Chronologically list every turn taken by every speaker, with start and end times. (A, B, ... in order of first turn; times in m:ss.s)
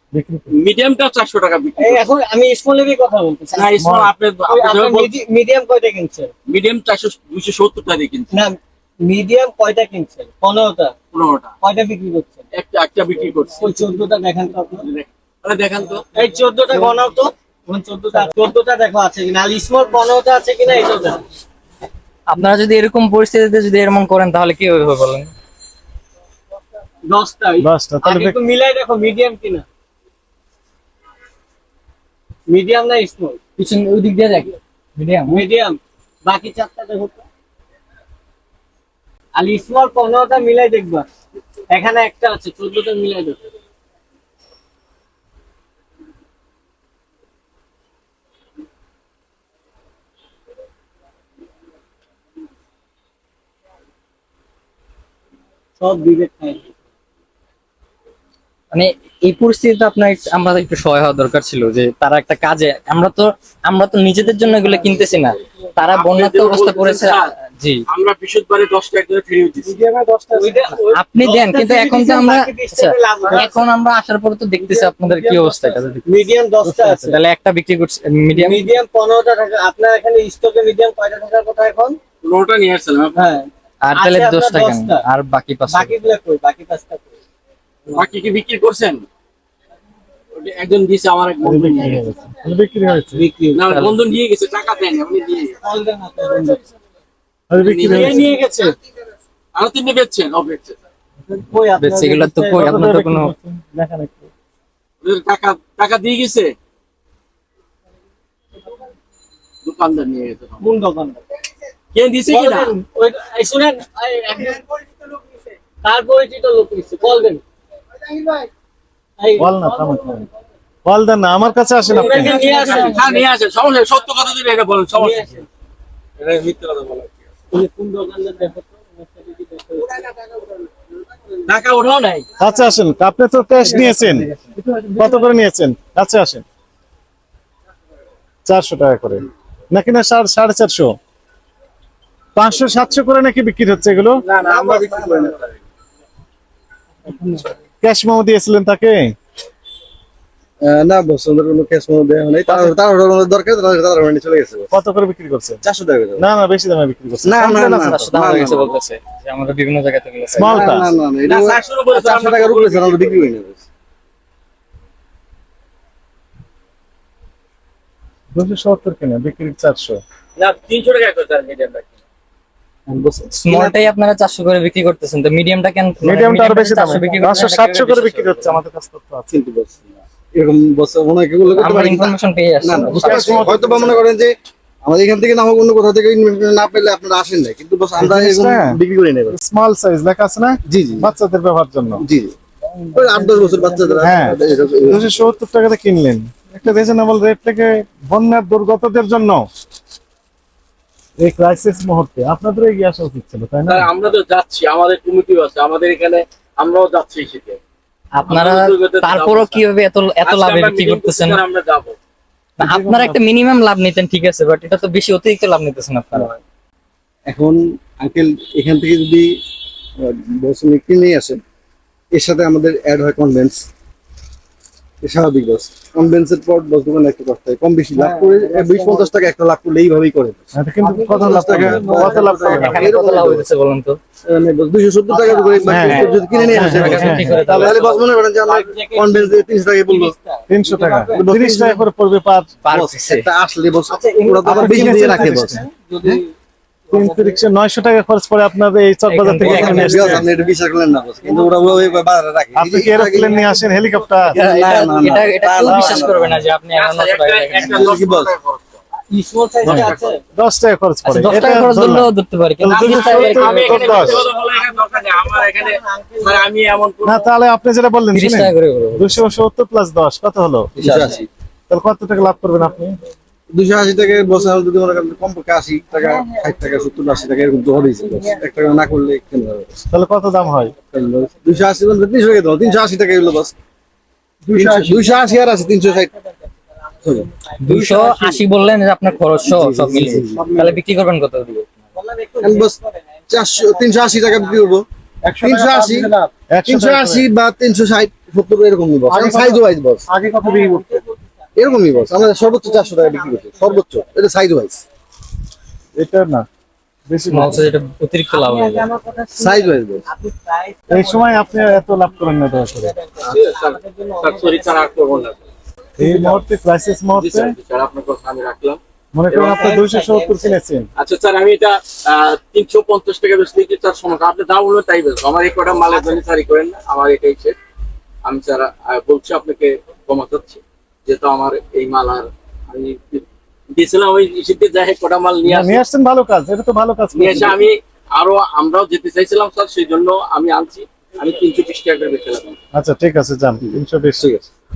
0:00.1-0:00.5 A
0:00.5-0:02.0 B
0:01.8-0:03.8 C
0:03.5-0:05.1 B
0:03.8-0:04.1 A
0:04.5-0:06.3 C
0:06.5-0:08.3 B
0:08.3-0:10.9 C
0:11.1-0:11.5 B
0:11.6-0:12.4 C
0:12.5-0:13.8 B
0:13.6-0:14.9 C
0:14.8-0:16.1 B
0:16.1-0:21.2 C
0:22.3-0:25.3 D
0:27.0-0:29.6 C
0:27.6-0:28.4 A
0:32.5-0:33.4 C
0:33.6-0:35.4 D
0:35.3-0:37.2 C
0:39.3-0:41.1 C
0:41.7-0:43.5 C
0:55.8-0:56.7 C
0:58.7-1:07.8 D
1:05.9-1:07.3 B
1:07.9-1:09.8 B
1:10.3-1:13.6 C
1:10.6-1:16.2 D
1:15.5-1:17.2 C
1:16.9-1:18.7 D
1:18.3-1:22.0 C
1:22.2-1:23.3 B
1:23.1-1:25.0 C
1:23.8-1:26.1 D
1:25.7-1:27.1 C
1:27.9-1:29.0 B
1:30.3-1:32.1 B
1:31.4-1:33.2 A
1:33.1-1:33.6 C
1:33.5-1:35.6 B
1:33.7-1:34.0 D
1:35.6-1:36.6 C
1:37.5-1:38.3 A
1:37.6-1:38.2 B
1:37.8-1:38.8 C
1:39.5-1:40.8 B
1:41.3-1:42.8 C
1:41.8-1:43.3 D
1:42.5-1:44.3 A
1:45.0-1:46.5 B
1:49.6-1:50.7 B
1:50.6-1:51.2 C
1:51.9-1:52.8 B
1:52.3-1:54.6 C
1:55.8-1:57.4 C
1:59.2-2:00.2 C
1:59.4-2:00.2 A
2:00.8-2:02.7 A
2:01.9-2:03.2 C
2:01.9-2:05.4 B
2:02.2-2:03.0 D
2:04.9-2:05.5 C
2:06.2-2:07.1 B
2:07.5-2:10.2 C
2:11.4-2:12.3 B
2:12.4-2:14.3 A
2:13.6-2:15.0 D
2:14.9-2:16.4 A
2:18.4-2:20.9 A
2:22.4-2:24.2 A
2:24.2-2:25.6 B
2:24.4-2:25.2 E
2:27.8-2:29.1 A
2:30.6-2:34.7 E
2:34.7-2:35.6 A
2:35.6-2:36.2 E
2:36.2-2:38.1 A
2:37.2-2:38.8 E
2:37.8-2:40.7 D
2:40.4-2:40.8 A
2:40.4-2:43.6 E
2:41.2-2:43.3 B
2:48.3-2:50.0 A
2:50.4-2:51.9 B
2:52.9-2:53.8 E
2:53.3-2:58.6 D
2:56.0-2:59.3 A
2:59.3-3:09.4 E
3:01.6-3:03.6 D
3:02.9-3:04.0 A
3:08.0-3:08.8 A
3:09.3-3:12.0 A
3:10.6-3:11.1 E
3:12.0-3:12.3 E
3:12.9-3:15.3 E
3:14.0-3:19.4 A
3:21.2-3:23.9 A
3:23.7-3:27.6 B
3:28.2-3:31.4 D
3:28.3-3:29.7 B
3:30.2-3:32.0 B
3:32.6-3:36.4 D
3:32.6-3:33.2 A
3:37.3-3:39.4 E
3:40.0-3:41.4 E
3:42.1-3:43.7 E
3:45.0-3:50.5 E
3:48.0-3:49.1 C
3:50.5-3:52.9 A
3:50.8-3:52.8 C
3:51.1-3:53.4 E
3:52.5-3:54.0 D
3:54.2-4:00.1 E
3:55.1-4:01.2 C
3:55.6-3:57.8 A
3:55.8-3:58.1 D
4:00.5-4:02.6 A
4:01.1-4:01.9 E
4:02.6-4:03.2 D
4:02.7-4:06.2 E
4:03.9-4:06.3 C
4:04.4-4:05.6 A
4:06.9-4:07.4 C
4:06.9-4:10.3 A
4:09.1-4:10.3 D
4:09.4-4:13.4 E
4:11.2-4:12.0 C
4:12.6-4:14.4 A
4:13.0-4:14.2 C
4:14.3-4:16.4 E
4:14.3-4:18.0 D
4:15.6-4:16.1 A
4:16.7-4:18.8 B
4:17.6-4:18.3 E
4:19.1-4:20.2 C
4:19.6-4:20.2 B
4:19.6-4:24.2 A
4:21.0-4:24.2 D
4:22.7-4:27.3 B
4:24.2-4:26.5 C
4:27.0-4:30.7 A
4:28.1-4:29.2 D
4:30.8-4:31.2 D
4:30.8-4:31.2 E
4:31.7-4:33.0 A
4:33.5-4:39.8 E
4:35.9-4:38.4 C
4:39.9-4:40.7 A
4:40.9-4:43.5 E
4:44.5-4:46.1 E
4:44.5-4:48.2 C
4:47.0-4:48.4 E
4:47.6-4:51.7 D
4:49.4-4:50.5 E
4:51.9-4:54.8 C
4:52.4-4:52.7 E
4:53.3-4:54.8 E
4:55.2-4:57.3 A
4:55.4-4:56.1 E
4:56.6-5:00.0 E
4:59.1-5:01.0 A
5:00.3-5:04.0 C
5:01.6-5:04.8 E
5:06.0-5:06.4 A
5:07.1-5:07.6 A
5:07.3-5:08.9 D
5:08.3-5:15.1 C
5:09.4-5:10.0 E
5:10.9-5:12.9 A
5:13.2-5:15.4 B
5:16.0-5:17.5 A
5:17.1-5:19.7 B
5:19.1-5:20.9 A
5:19.4-5:20.6 C
5:21.0-5:27.6 B
5:28.2-5:35.8 B
5:35.4-5:37.7 A
5:37.1-5:42.6 B
5:42.7-5:44.2 A
5:43.6-5:44.4 E